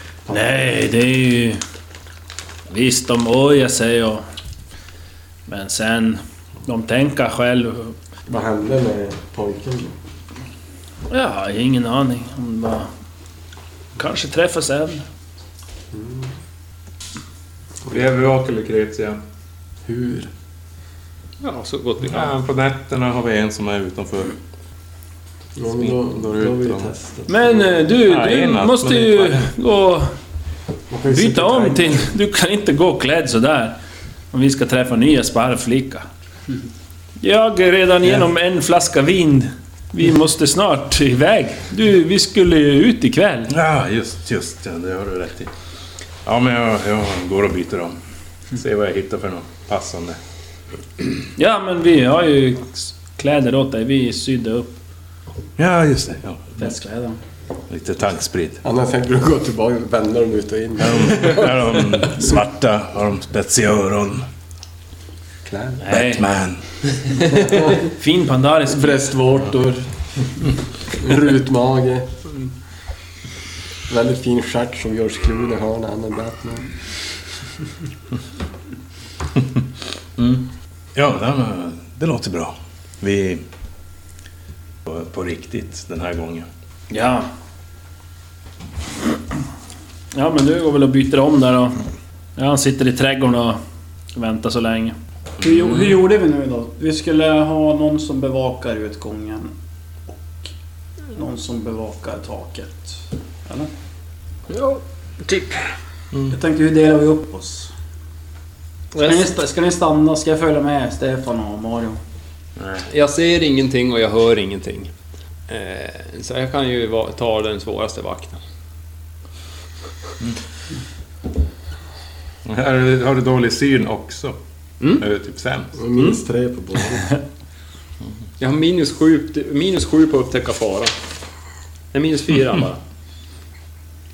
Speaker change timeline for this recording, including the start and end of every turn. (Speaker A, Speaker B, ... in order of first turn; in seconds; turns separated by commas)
Speaker A: 0.3-1.6, Speaker A: 2.7-4.2, Speaker A: 5.5-8.0, Speaker B: 8.3-10.0, Speaker A: 11.1-12.9, Speaker A: 14.0-15.1, Speaker B: 15.9-16.3, Speaker C: 17.9-19.2, Speaker B: 19.9-20.3, Speaker D: 21.4-22.4, Speaker C: 22.1-24.4, Speaker B: 25.6-27.9, Speaker C: 25.7-26.9, Speaker A: 27.3-30.1, Speaker C: 28.0-29.5, Speaker B: 30.9-32.1, Speaker A: 31.1-33.8, Speaker A: 34.3-36.1, Speaker A: 37.2-43.5, Speaker C: 43.5-45.5, Speaker C: 46.2-48.0, Speaker C: 48.5-50.2, Speaker A: 51.4-54.7, Speaker C: 55.6-56.6, Speaker E: 56.6-57.2, Speaker C: 57.7-58.6, Speaker B: 58.6-61.6, Speaker C: 60.8-64.3, Speaker B: 65.5-65.8, Speaker A: 65.8-66.2, Speaker C: 65.9-66.6, Speaker B: 67.3-67.8, Speaker A: 67.8-69.0, Speaker B: 68.7-69.9, Speaker B: 71.0-72.1, Speaker B: 73.9-76.7, Speaker C: 79.4-79.6, Speaker C: 80.2-83.4, Speaker C: 84.8-86.5, Speaker A: 86.9-87.3, Speaker A: 90.1-91.8, Speaker A: 92.4-93.6, Speaker A: 94.2-95.0, Speaker E: 95.4-99.5, Speaker C: 95.4-96.0, Speaker E: 101.1-103.7, Speaker D: 104.5-105.7, Speaker E: 106.3-107.7, Speaker D: 109.0-109.3, Speaker E: 109.0-112.0, Speaker D: 112.9-114.9, Speaker D: 115.5-118.4, Speaker C: 122.5-125.8, Speaker B: 125.8-127.1, Speaker D: 128.4-130.9, Speaker D: 131.9-132.8